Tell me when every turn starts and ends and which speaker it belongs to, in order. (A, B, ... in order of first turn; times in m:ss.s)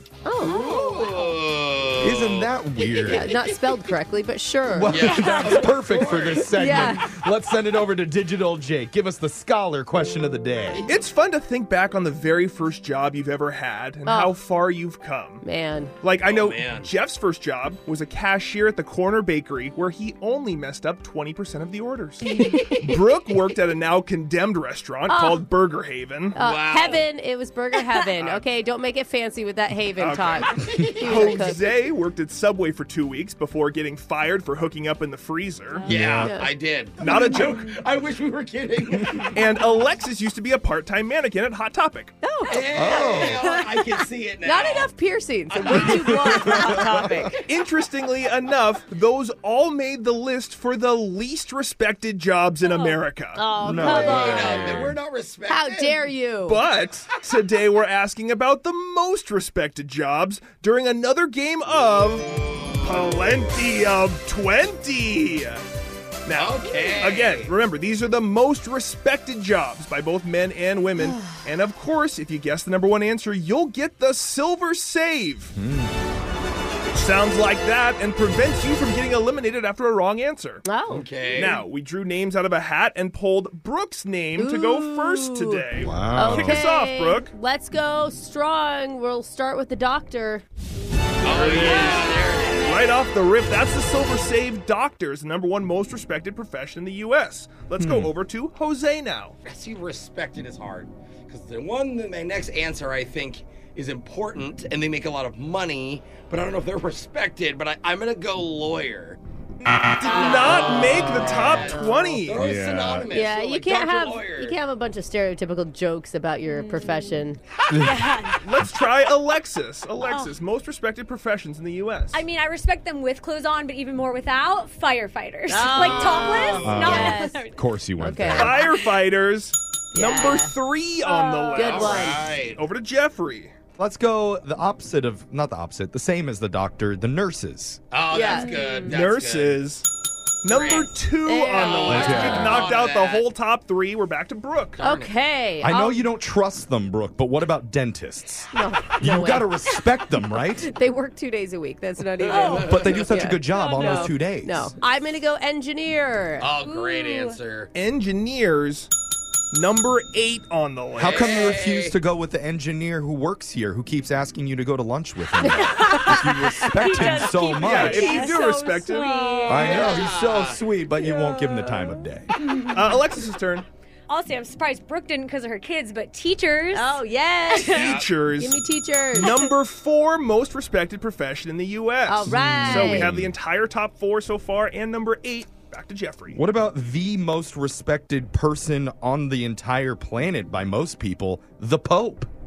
0:00.2-0:01.3 A
0:00.4-0:03.8 B
0:02.0-0:03.3 C
0:03.1-0:05.6 A
0:04.7-0:10.8 C
0:04.8-0:06.8 B
0:05.0-0:05.6 D
0:06.6-0:07.0 A
0:10.7-0:11.0 B
0:10.9-0:15.4 E
0:14.0-0:14.4 A
0:15.4-0:15.9 A
0:16.0-0:22.3 E
0:16.2-0:16.9 B
0:22.8-0:26.3 E
0:25.1-0:25.4 A
0:26.3-0:27.0 B
0:26.3-0:31.6 A
0:28.2-0:28.4 E
0:30.0-0:35.8 E
0:30.5-0:31.5 B
0:35.8-0:36.3 C
0:35.9-0:39.3 B
0:36.2-0:36.5 A
0:37.0-0:37.6 E
0:39.3-0:42.2 E
0:42.2-0:43.2 A
0:42.5-0:44.9 B
0:42.7-0:43.4 C
0:44.4-0:47.3 A
0:45.5-0:47.4 B
0:45.8-0:47.2 C
0:47.5-0:53.4 E
0:52.6-0:53.0 D
0:53.3-0:54.8 A
0:53.6-0:55.0 C
0:53.7-0:56.0 B
0:53.9-0:54.4 D
0:55.5-0:56.6 A
0:56.4-1:05.6 E
1:06.2-1:15.5 E
1:06.3-1:07.5 B
1:11.0-1:11.3 A
1:15.5-1:15.9 C
1:16.9-1:20.6 E
1:20.6-1:21.1 A
1:20.9-1:21.6 B
1:21.3-1:27.3 E
1:24.4-1:30.4 A
1:25.8-1:26.6 C
1:31.2-1:32.7 B
1:31.3-1:31.9 E
1:31.7-1:32.9 D
1:32.6-1:39.4 E
1:37.8-1:38.1 C
1:39.4-1:49.2 B
1:50.0-1:52.4 E
1:50.1-1:51.9 A
1:50.1-1:54.6 B
1:52.3-1:53.1 C
1:53.1-1:57.4 A
1:57.7-1:58.4 D
1:58.4-2:02.2 E
2:00.0-2:00.3 D
2:02.1-2:07.6 D
2:05.5-2:07.3 A
2:05.8-2:06.8 B
2:06.6-2:08.6 C
2:08.0-2:08.6 A
2:08.3-2:13.5 E
2:09.9-2:10.5 A
2:10.0-2:10.4 D
2:11.0-2:11.8 D
2:11.5-2:12.2 A
2:11.6-2:12.6 B
2:13.8-2:17.8 C
2:17.9-2:19.6 B
2:18.1-2:18.9 A
2:18.2-2:18.7 D
2:18.9-2:19.9 E
2:20.4-2:24.8 E
2:20.5-2:20.9 B
2:21.2-2:22.5 A
2:21.6-2:23.2 B
2:21.9-2:22.7 C
2:24.8-2:25.1 B
2:24.8-2:26.0 A
2:25.6-2:30.7 C
2:28.5-2:29.5 A
2:30.7-2:36.5 A
2:32.3-2:33.1 B
2:32.3-2:32.7 D
2:32.6-2:34.7 C
2:33.5-2:34.1 D
2:36.4-2:37.7 B
2:36.6-2:37.3 D
2:37.7-2:38.9 E
2:39.5-2:41.5 E
2:41.0-2:48.2 C
2:41.0-2:42.0 B
2:45.4-2:50.1 D
2:47.6-2:49.5 E
2:49.5-2:52.3 C
2:49.5-2:50.6 B
2:52.5-2:52.9 D
2:52.7-2:53.6 E
2:54.1-2:58.0 D
2:56.7-2:59.4 A
2:57.6-2:58.6 E
2:59.2-3:06.4 E
3:02.1-3:03.1 A
3:02.2-3:03.3 C
3:06.3-3:12.3 C